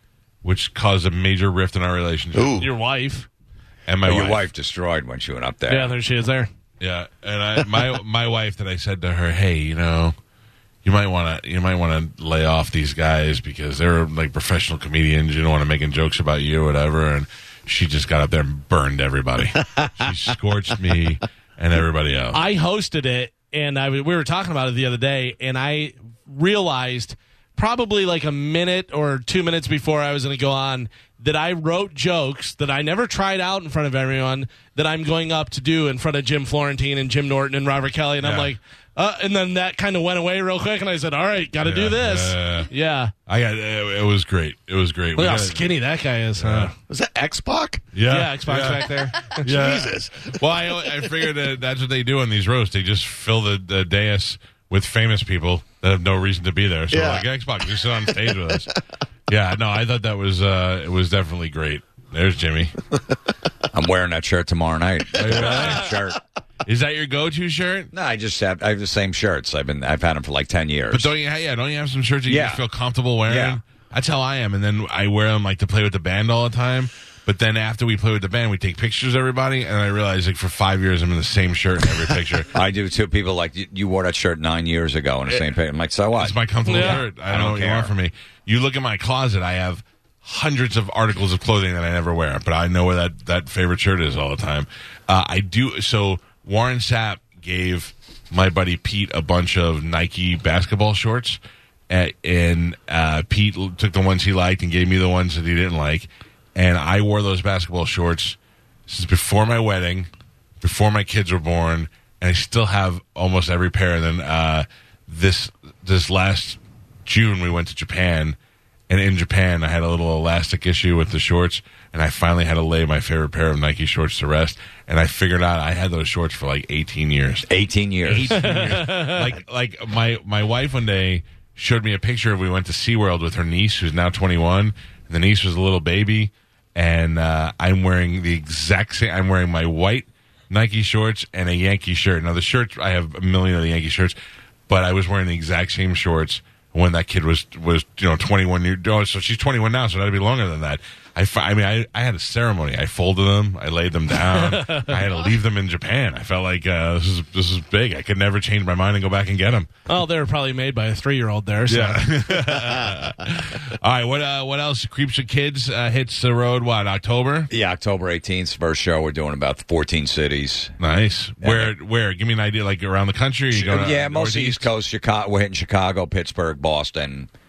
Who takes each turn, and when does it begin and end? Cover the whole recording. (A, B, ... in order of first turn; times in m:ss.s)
0:00.4-0:02.7 A
0:02.3-0:02.7 B
0:02.6-0:03.3 C
0:03.9-0:04.5 A
0:04.0-0:06.0 D
0:05.7-0:06.5 C
0:06.8-0:10.1 A
0:10.8-0:22.4 A
0:22.3-0:43.1 C
0:38.2-0:38.5 A
0:41.6-0:42.7 A
0:43.3-0:45.7 A
0:45.2-0:46.7 C
0:46.4-0:46.7 A
0:46.9-0:47.8 B
0:47.9-0:58.7 A
0:48.0-0:49.5 C
0:49.4-0:50.4 B
0:56.9-0:57.9 B
0:59.3-1:02.7 A
1:03.7-1:06.2 D
1:05.2-1:06.0 A
1:06.6-1:07.9 A
1:07.9-1:11.1 D
1:10.9-1:22.5 A
1:12.3-1:12.6 D
1:13.3-1:13.6 D
1:22.5-1:27.9 D
1:26.1-1:41.4 A
1:26.7-1:27.0 C
1:41.9-1:50.1 A
1:50.6-1:58.4 A
1:58.9-2:07.5 A
2:07.5-2:08.8 D
2:08.0-2:24.1 A
2:08.3-2:09.3 C
2:24.7-2:39.7 A
2:34.3-2:35.0 C
2:39.9-2:42.2 C
2:41.7-2:47.5 A
2:47.5-2:50.7 D
2:50.8-2:54.7 A
2:51.4-2:51.7 D
2:53.5-2:57.3 D